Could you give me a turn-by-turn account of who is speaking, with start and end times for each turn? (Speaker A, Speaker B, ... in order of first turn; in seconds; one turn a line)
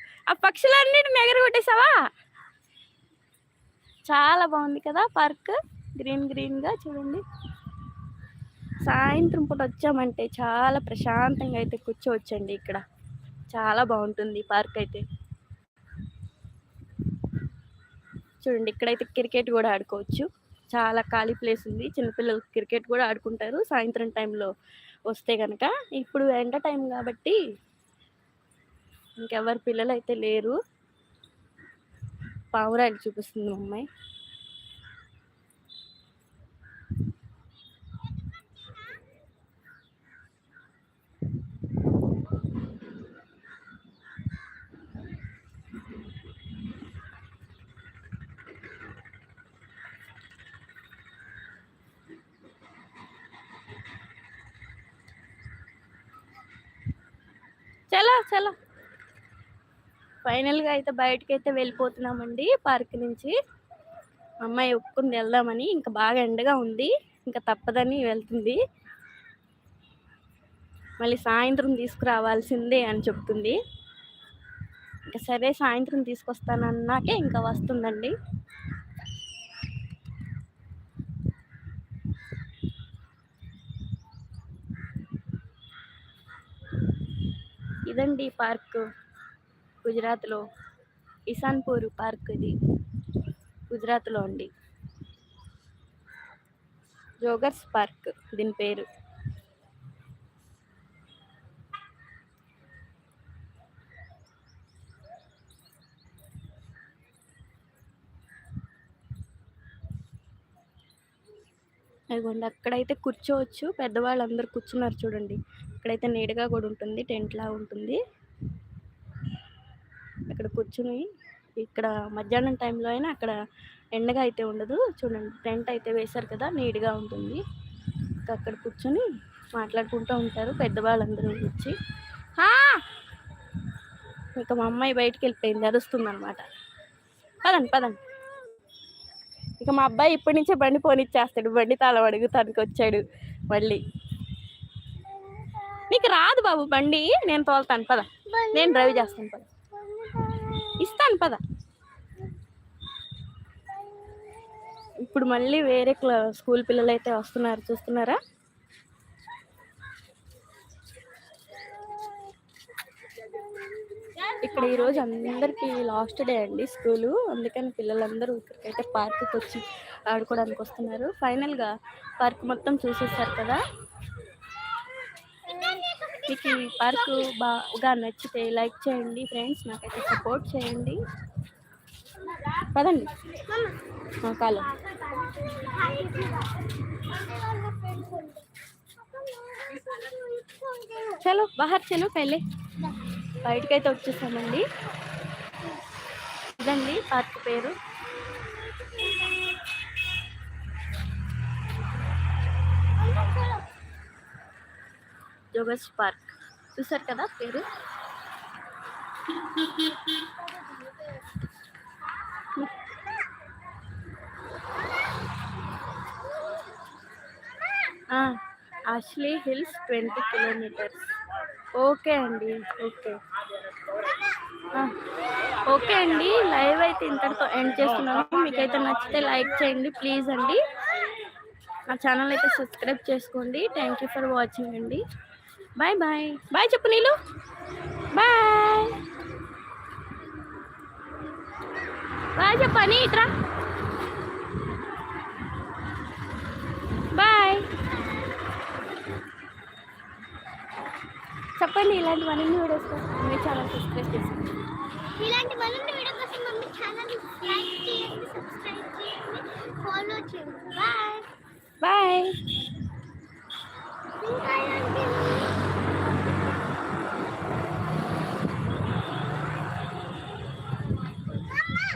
Speaker A: 0.3-2.1
Speaker A: 4.1-7.2
Speaker A: 8.9-12.8
Speaker A: 13.5-15.0
Speaker A: 18.4-24.5
Speaker A: 25.1-27.4
Speaker A: 29.2-30.6
Speaker A: 32.5-33.9
Speaker A: 57.9-58.5
Speaker A: 60.2-63.4
Speaker A: 64.4-68.6
Speaker A: 71.0-73.6
Speaker A: 75.1-78.2
Speaker A: 87.9-88.9
Speaker A: 89.8-90.4
Speaker A: 91.3-92.6
Speaker A: 93.7-94.5
Speaker A: 97.2-98.9
Speaker A: 112.1-118.0
Speaker A: 120.3-121.1
Speaker A: 121.6-123.4
Speaker A: 123.9-127.4
Speaker A: 128.3-131.8
Speaker A: 132.4-132.8
Speaker A: 134.4-136.4
Speaker A: 137.4-138.0
Speaker A: 139.6-143.8
Speaker B: 145.0-146.1
Speaker A: 145.9-149.5
Speaker B: 148.3-150.9
Speaker A: 150.8-151.4
Speaker B: 153.7-155.0
Speaker A: 155.0-158.2
Speaker B: 163.2-164.4
Speaker A: 164.4-173.6
Speaker B: 175.3-177.3
Speaker A: 176.3-181.0
Speaker A: 182.7-183.1
Speaker B: 183.5-183.8
Speaker A: 184.2-184.7
Speaker B: 184.6-191.2
Speaker A: 191.2-192.4
Speaker A: 193.4-194.7
Speaker A: 196.6-197.8
Speaker B: 198.3-199.6
Speaker B: 203.0-203.7
Speaker A: 205.5-207.7
Speaker B: 210.1-211.2
Speaker A: 218.1-221.0
Speaker A: 221.8-223.2
Speaker A: 225.7-230.6
Speaker A: 231.9-235.0
Speaker A: 235.8-237.2
Speaker A: 238.1-239.0
Speaker A: 242.4-243.3
Speaker A: 247.2-247.7
Speaker A: 251.6-254.5
Speaker B: 255.2-261.3
Speaker A: 261.8-262.4
Speaker B: 264.2-265.6